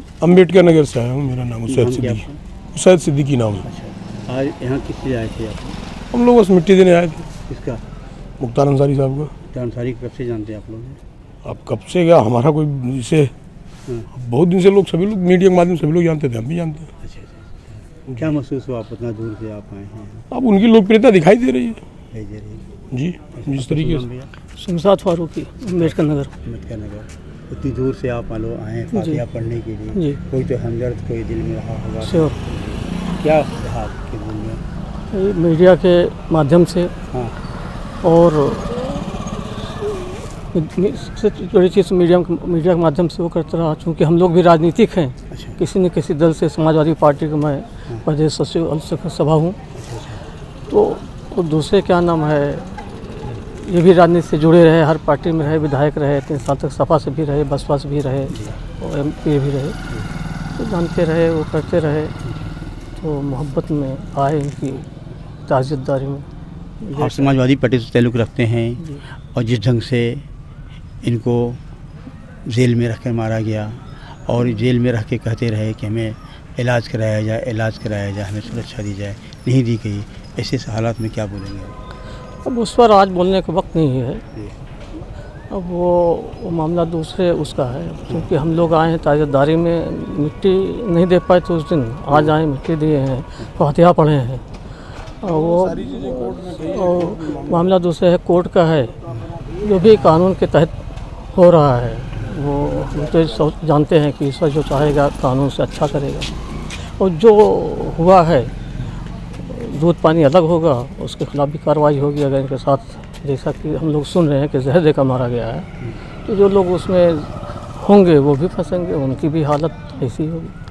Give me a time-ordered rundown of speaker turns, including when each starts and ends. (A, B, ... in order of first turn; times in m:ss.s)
0:00.2-0:02.2 A
0:01.7-0:02.4 B
0:02.7-0:03.6 A
0:03.6-0:05.8 B
0:06.1-0:07.3 A
0:07.5-0:07.8 B
0:08.4-0:09.3 A
0:09.5-0:11.0 B
0:11.4-0:13.3 A
0:14.2-0:16.9 A
0:17.0-0:20.3 B
0:20.3-0:21.8 A
0:22.1-0:22.7 B
0:22.9-0:24.1 A
0:23.3-0:24.3 B
0:24.6-0:26.3 C
0:25.7-0:34.6 B
0:28.9-0:29.2 C
0:30.0-0:30.2 C
0:32.0-0:32.4 C
0:35.1-0:36.9 C
0:37.1-0:37.4 B
0:38.0-0:49.6 C
0:45.3-0:45.6 B
0:49.7-0:50.2 B
0:50.7-0:52.7 C
0:53.6-0:59.8 C
0:58.3-0:58.6 B
1:00.5-1:02.2 C
1:03.0-1:04.9 C
1:05.5-1:06.3 C
1:06.8-1:07.3 C
1:06.9-1:10.3 B
1:11.0-1:11.6 B
1:12.5-1:21.8 B
1:22.4-1:24.2 C
1:25.5-1:34.4 C
1:35.2-1:40.8 C
1:41.3-1:48.5 C
1:49.4-1:55.7 C
1:56.2-2:00.5 C